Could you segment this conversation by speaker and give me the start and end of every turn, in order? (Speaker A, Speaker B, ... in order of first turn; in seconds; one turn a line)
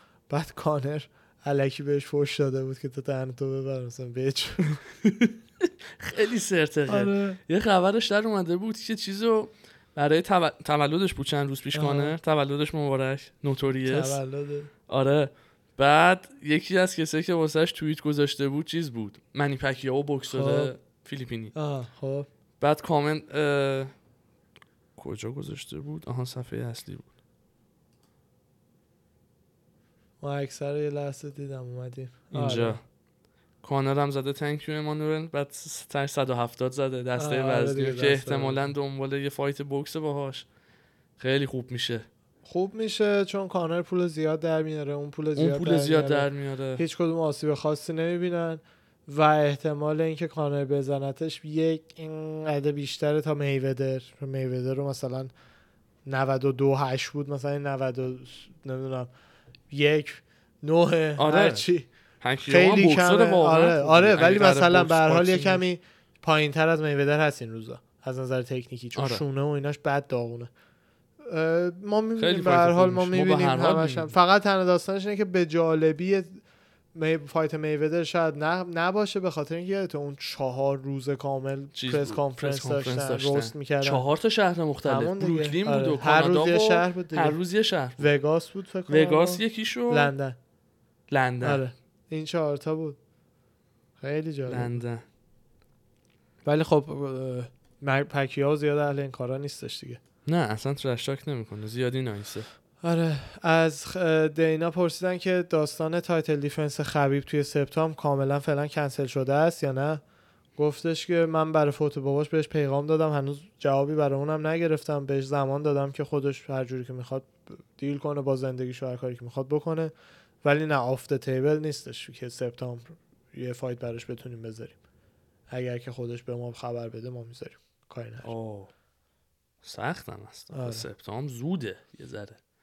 Speaker A: 0.3-4.7
Speaker B: 4.7-14.2
Speaker A: 6.9-7.4
Speaker A: 11.7-12.2
Speaker A: 13.8-14.7
Speaker B: 14.9-21.5
Speaker A: 20.3-20.7
Speaker A: 21.5-22.3
Speaker B: 22.6-23.9
Speaker B: 25.0-27.1
Speaker A: 30.2-32.8
Speaker B: 32.3-32.8
Speaker B: 33.6-40.5
Speaker A: 37.1-38.7
Speaker B: 41.2-42.1
Speaker A: 42.5-55.3
Speaker B: 45.4-46.8
Speaker A: 56.0-59.1
Speaker A: 59.7-61.9
Speaker B: 61.2-61.7
Speaker B: 62.2-65.6
Speaker A: 62.4-70.5
Speaker B: 69.0-69.2
Speaker A: 71.2-76.4
Speaker B: 72.2-74.1
Speaker A: 76.9-84.0
Speaker B: 81.8-88.1
Speaker A: 84.8-87.4
Speaker A: 88.0-90.4
Speaker B: 88.9-90.1
Speaker B: 91.1-91.6
Speaker A: 91.4-93.0
Speaker A: 94.0-94.8
Speaker B: 94.5-95.0
Speaker A: 96.4-100.0
Speaker B: 100.3-102.5
Speaker A: 102.8-110.0
Speaker A: 110.6-124.8
Speaker A: 125.5-128.3
Speaker B: 128.2-128.7
Speaker B: 129.6-132.4
Speaker A: 130.5-130.9